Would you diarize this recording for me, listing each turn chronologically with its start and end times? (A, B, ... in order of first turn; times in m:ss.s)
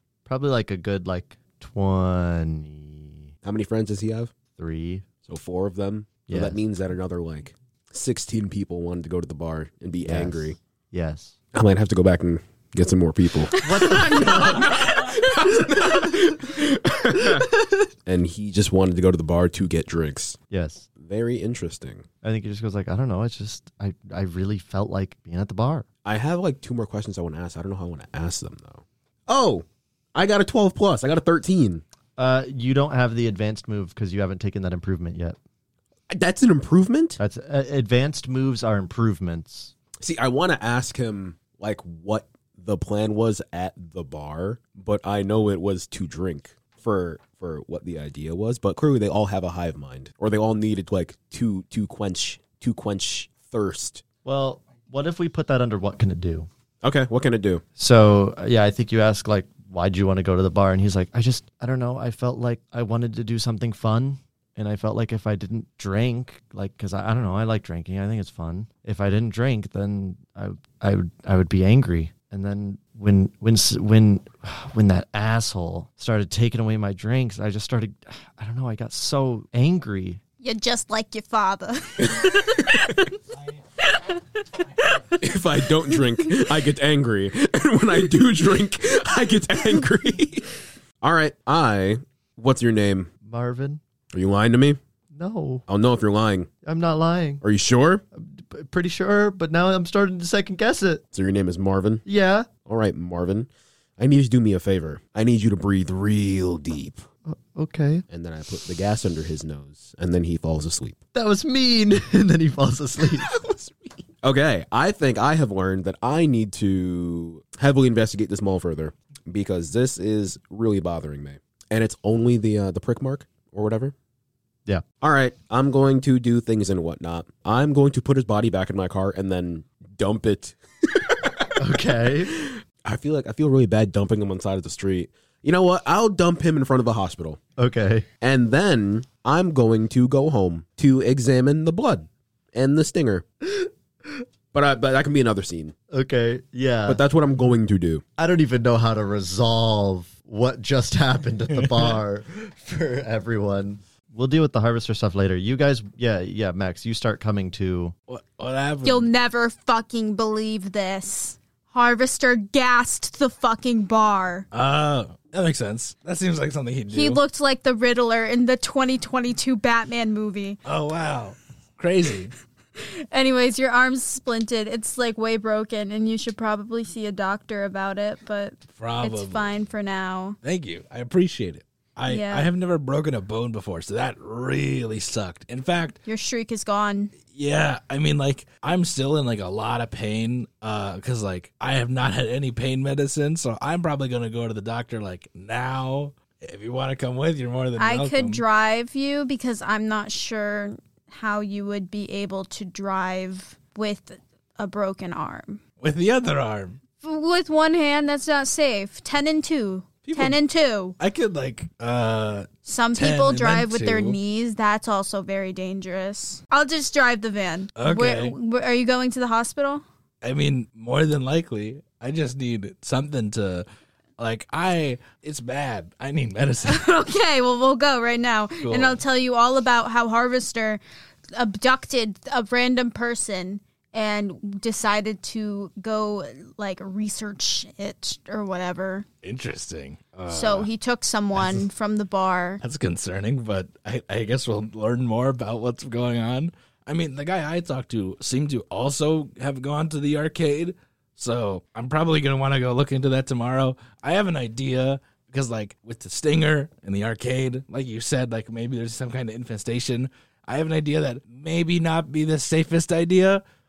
0:00.2-0:03.3 A
0:03.4-0:04.3 B
0:04.6-0:05.0 A
0:05.2-0:10.6 B
0:06.3-0:06.6 A
0:10.0-0:11.4 A
0:11.5-0:17.5 B
0:13.6-0:15.4 C
0:13.6-0:14.8 A
0:17.2-0:17.8 A
0:18.0-0:20.4 B
0:20.5-0:20.9 A
0:21.0-0:22.0 B
0:22.2-0:25.8 A
0:26.0-0:31.8 B
0:32.2-0:35.4 A
0:36.1-0:37.2 B
0:37.2-0:39.7 A
0:40.0-0:54.0 B
0:54.2-0:56.5 A
0:56.8-0:57.6 B
0:57.8-1:20.2 A
1:20.4-1:23.1 C
1:23.8-1:25.1 C
1:25.2-1:30.5 B
1:31.0-1:33.1 B
1:33.2-1:33.8 A
1:34.1-1:34.8 B
1:35.1-1:35.6 A
1:35.7-1:36.5 B
1:36.6-1:37.4 A
1:37.4-1:38.0 B
1:38.1-1:41.0 A
1:41.1-1:42.0 B
1:42.0-1:42.5 A
1:42.6-1:47.0 B
1:47.2-1:48.0 A
1:48.1-1:51.0 B
1:51.1-1:53.3 A
1:53.1-2:03.9 B
2:05.0-2:11.5 B
2:11.6-2:12.3 A
2:12.2-2:17.4 B
2:17.6-2:18.0 A
2:18.2-2:23.2 B
2:24.5-2:25.7 B
2:25.9-2:27.0 A
2:26.8-2:28.0 B
2:28.2-2:37.9 A
2:38.1-2:39.1 D
2:38.8-2:44.5 C
2:44.5-2:47.2 D
2:46.9-2:50.6 C
2:50.6-2:52.3 D
2:52.8-3:00.4 C
2:58.8-2:59.5 D
3:00.4-3:06.0 D
3:02.1-3:02.5 C
3:06.0-3:07.1 C
3:07.3-3:18.4 D
3:17.8-3:25.6 C
3:25.8-3:26.8 D
3:27.0-3:31.0 C
3:30.0-3:30.4 D
3:31.0-3:34.2 D
3:32.6-3:39.8 C
3:37.8-3:38.3 D
3:40.2-3:43.6 D
3:44.2-3:46.9 D
3:46.6-3:50.8 C
3:48.6-3:49.0 D
3:51.3-3:59.0 C
3:59.2-4:00.7 D
4:00.3-4:02.6 C
4:01.3-4:01.6 D
4:02.6-4:23.4 D